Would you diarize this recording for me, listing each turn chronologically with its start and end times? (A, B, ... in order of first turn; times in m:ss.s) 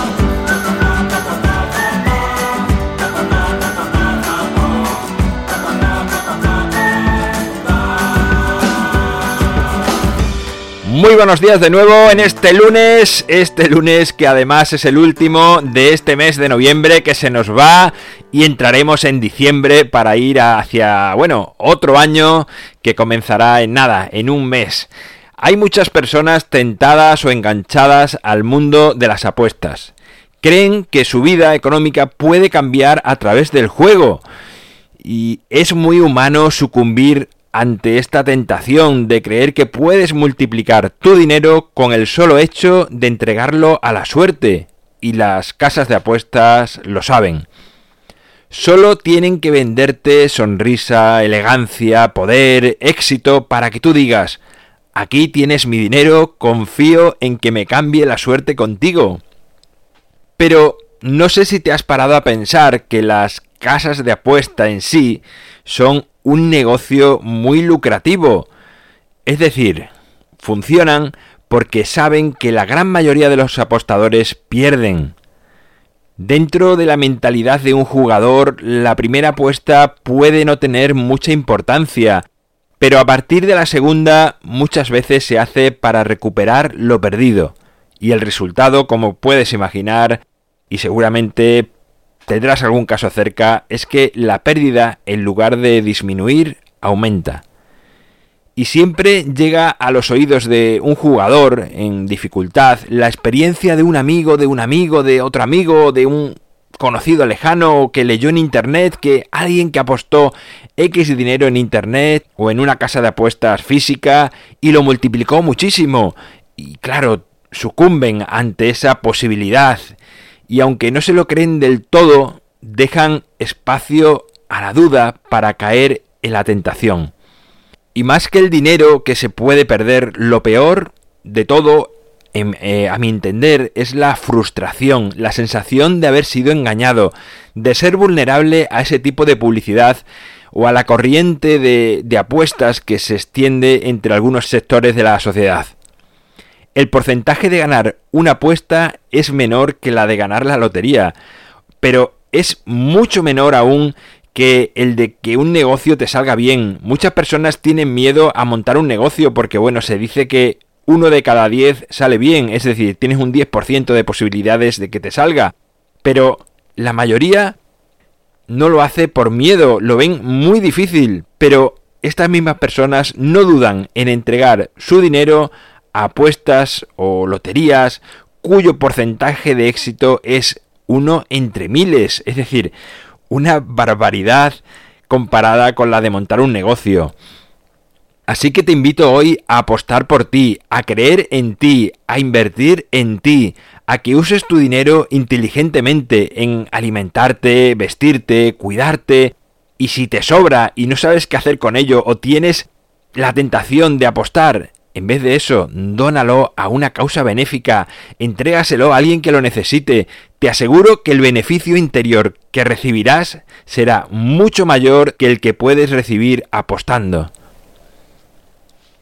0:10.8-0:34.2 A
0:35.0-0:47.5 A
0:48.5-0:54.4 A
0:55.0-0:59.2 A
1:00.4-1:08.5 A
1:09.3-1:15.1 A
1:16.2-1:22.3 A
1:22.8-1:31.7 A
1:32.3-1:37.4 A
1:38.6-2:00.0 A
2:00.5-2:07.1 A
2:08.0-2:25.7 A
2:26.8-2:31.2 A
2:31.8-2:45.5 A
2:46.0-2:47.6 A
2:48.5-3:02.7 A
3:03.3-3:07.1 A
3:08.3-3:37.3 A